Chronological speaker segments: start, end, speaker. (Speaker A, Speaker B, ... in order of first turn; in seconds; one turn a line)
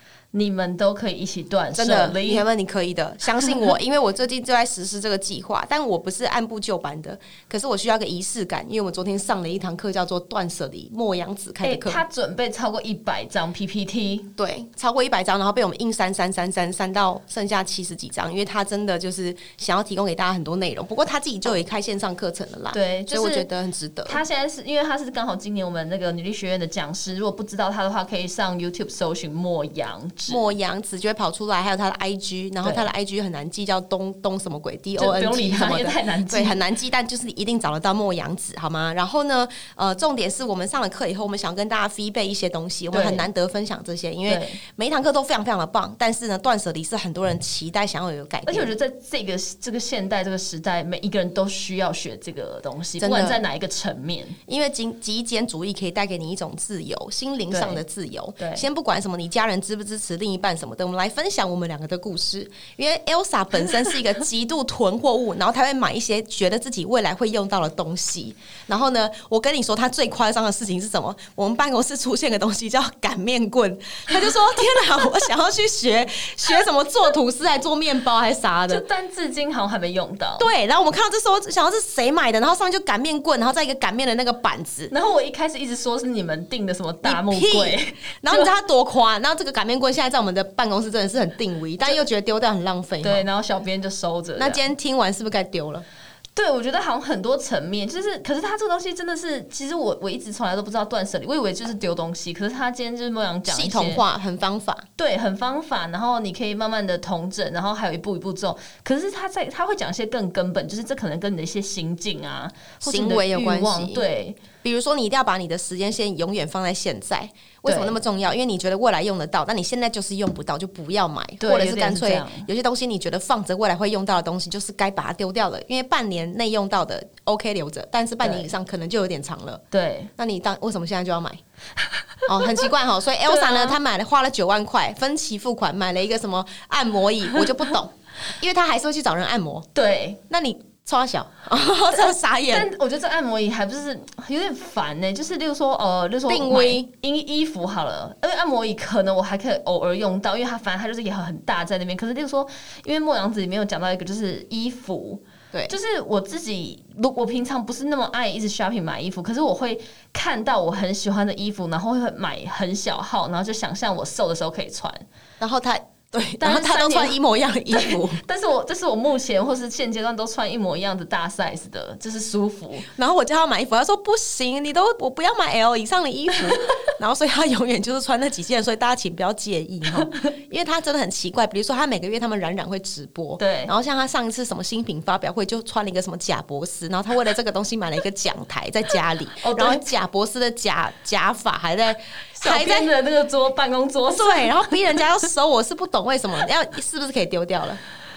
Speaker A: 0.3-2.5
Speaker B: 1.7-12.0
Speaker A: 11.6-14.3
Speaker B: 14.4-24.2
Speaker A: 22.7-23.5
Speaker A: 24.1-30.5
Speaker B: 30.3-48.7
Speaker A: 32.6-32.9
Speaker A: 35.0-36.6
Speaker A: 42.9-43.3
Speaker A: 44.3-44.6
Speaker A: 48.5-54.4
Speaker B: 53.0-53.4
Speaker B: 54.5-78.8
Speaker A: 57.5-57.8
Speaker A: 58.4-58.6
Speaker A: 78.7-80.5
Speaker B: 80.4-84.9
Speaker A: 84.9-88.5
Speaker B: 87.0-93.2
Speaker A: 93.0-94.7
Speaker B: 94.4-95.8
Speaker A: 96.3-104.0
Speaker B: 103.5-104.8
Speaker A: 105.0-114.4
Speaker B: 112.8-114.0
Speaker B: 114.6-129.6
Speaker A: 117.7-118.0
Speaker A: 121.4-122.5
Speaker A: 128.2-128.5
Speaker A: 129.7-130.1
Speaker B: 130.2-131.4
Speaker A: 131.9-132.7
Speaker B: 132.2-139.7
Speaker A: 133.2-133.8
Speaker A: 139.7-140.2
Speaker B: 140.3-142.7
Speaker A: 141.9-165.1
Speaker B: 146.3-146.9
Speaker B: 165.4-168.2
Speaker A: 166.4-167.2
Speaker A: 167.7-172.9
Speaker B: 172.9-192.9
Speaker A: 180.0-180.3
Speaker A: 183.4-183.7
Speaker A: 189.4-189.8
Speaker A: 192.3-195.2
Speaker B: 194.1-197.8